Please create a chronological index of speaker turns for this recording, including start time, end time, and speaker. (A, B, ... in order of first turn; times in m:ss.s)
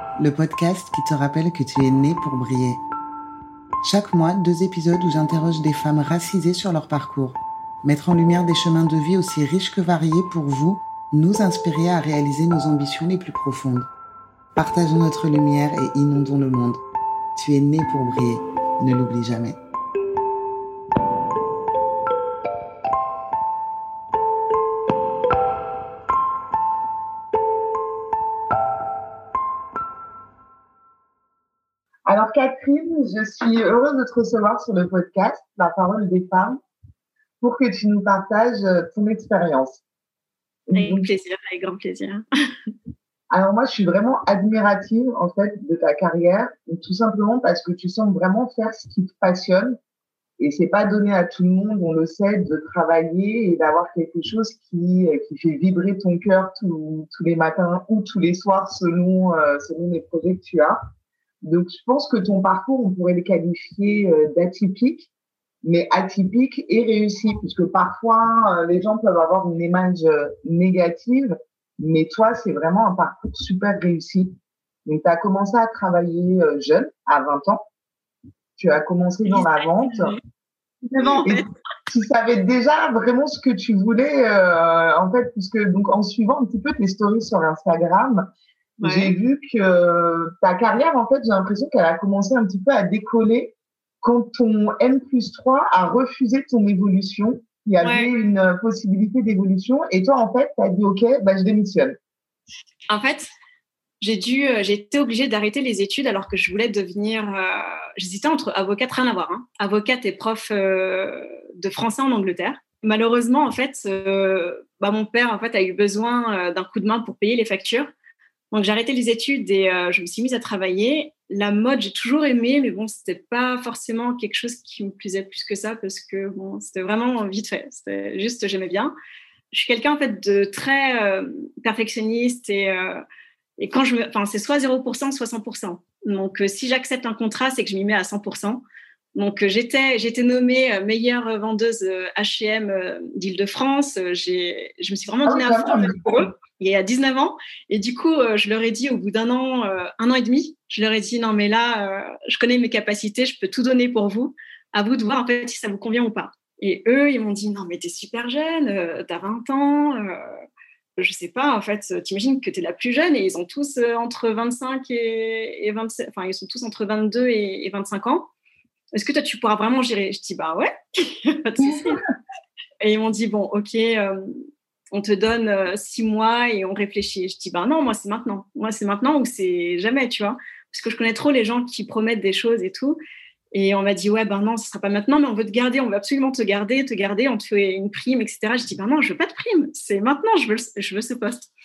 0:00.2-0:02.8 A
0:03.8-0:13.9 A
0:14.6-0:16.8 A
0:17.4-0:19.6 A
0:32.1-0:36.6 B
0:37.4-0:39.8 B
0:40.7-0:41.1 B
0:40.7-0:42.2 C
0:43.3-0:49.8 B
0:50.4-1:00.8 B
1:01.4-1:05.1 B
1:05.6-1:17.6 B
1:18.6-1:20.1 B
1:19.3-1:20.2 C
1:20.8-1:28.2 B
1:21.0-1:21.5 C
1:28.8-1:29.1 C
1:28.8-1:42.0 B
1:37.8-1:38.1 C
1:42.9-1:43.3 C
1:44.0-1:57.9 C
1:58.5-2:08.9 C
2:09.5-2:13.0 C
2:13.6-2:18.6 C
2:19.2-2:40.2 C
2:25.3-2:26.3 B
2:41.0-2:48.3 C
2:49.0-2:52.0 C
2:52.8-2:54.4 C
2:54.9-3:03.0 C
3:03.5-3:11.5 C